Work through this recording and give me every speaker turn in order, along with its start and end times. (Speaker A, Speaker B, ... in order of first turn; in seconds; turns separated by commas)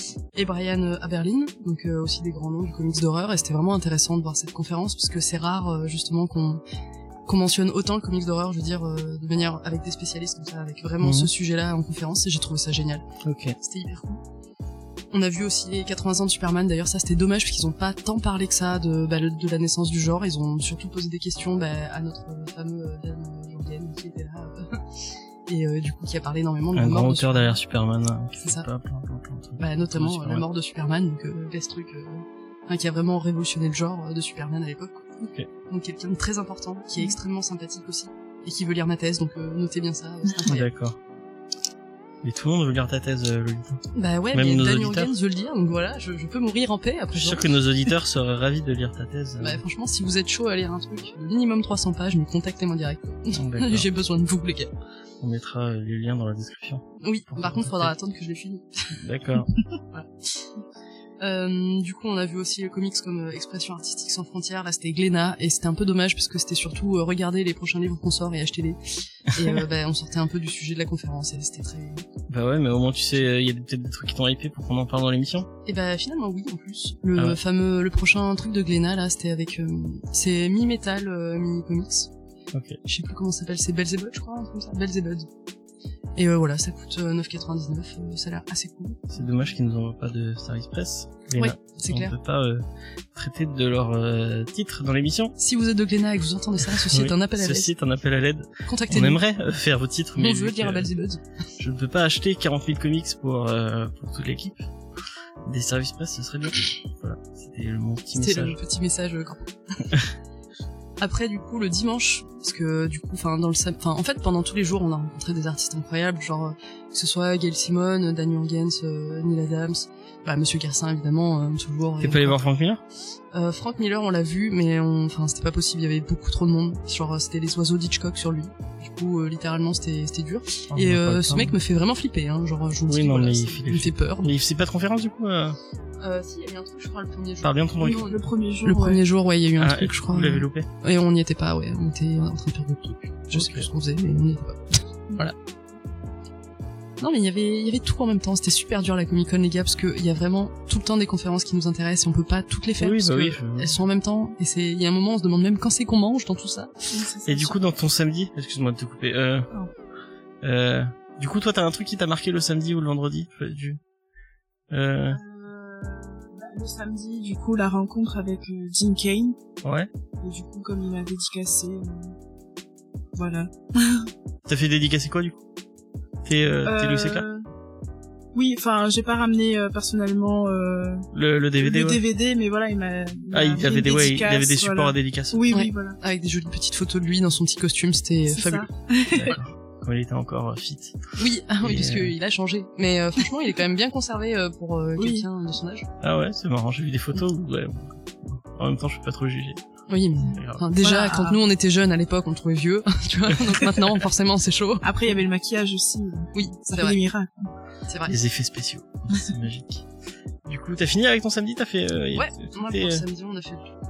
Speaker A: 0.3-6.6, Speaker A: 7.2-13.0, Speaker B: 11.0-11.3, Speaker B: 13.2-13.6, Speaker A: 13.6-14.2, Speaker A: 15.1-24.8, Speaker A: 25.5-27.6, Speaker B: 26.7-30.4, Speaker A: 28.4-28.6, Speaker A: 29.6-35.1, Speaker B: 35.2-35.5, Speaker A: 35.7-40.7, Speaker B: 40.5-41.0, Speaker B: 42.2-43.8, Speaker A: 43.9-47.5, Speaker B: 44.3-45.1, Speaker B: 47.1-49.6, Speaker A: 49.4-54.7, Speaker B: 53.3-53.9, Speaker B: 55.2-57.9, Speaker A: 57.0-58.9, Speaker B: 59.0-59.5, Speaker A: 61.2-72.0, Speaker B: 72.3-75.5, Speaker A: 75.7-82.1, Speaker B: 82.5-82.8, Speaker A: 82.8-85.3, Speaker A: 86.2-89.0, Speaker B: 89.1-92.6, Speaker A: 91.3-92.1, Speaker B: 93.2-95.3, Speaker A: 95.4-97.7, Speaker B: 96.7-100.9, Speaker A: 98.7-99.2, Speaker A: 100.2-101.2, Speaker B: 101.6-104.6, Speaker B: 105.5-108.6, Speaker A: 108.2-109.5, Speaker A: 111.0-122.4, Speaker B: 122.0-122.8, Speaker A: 123.3-134.3, Speaker B: 130.7-131.6, Speaker B: 132.9-135.6, Speaker A: 136.0-145.3, Speaker B: 137.4-138.1, Speaker C: 137.8-139.0, Speaker B: 139.6-140.7, Speaker B: 143.3-143.7, Speaker A: 147.0-156.7, Speaker B: 152.8-153.7, Speaker C: 156.9-157.6, Speaker B: 157.2-159.5, Speaker B: 160.4-163.8, Speaker B: 164.7-165.2, Speaker C: 165.1-169.4, Speaker B: 169.6-169.9, Speaker C: 170.2-172.1, Speaker C: 173.1-174.1, Speaker B: 174.4-175.4, Speaker B: 176.2-177.2, Speaker C: 176.6-177.4, Speaker C: 178.3-181.1, Speaker B: 181.1-182.0, Speaker C: 181.6-186.0, Speaker B: 183.3-185.5, Speaker A: 185.5-188.7, Speaker C: 188.3-189.4, Speaker B: 189.1-190.9, Speaker A: 191.2-195.9, Speaker B: 191.6-192.1, Speaker C: 195.0-195.3, Speaker B: 196.0-199.6, Speaker A: 199.9-205.2, Speaker B: 200.3-200.6, Speaker C: 200.8-201.4, Speaker C: 204.8-207.5, Speaker A: 206.3-207.0, Speaker A: 207.9-208.1, Speaker B: 208.1-209.8, Speaker B: 210.5-213.0, Speaker A: 212.1-213.6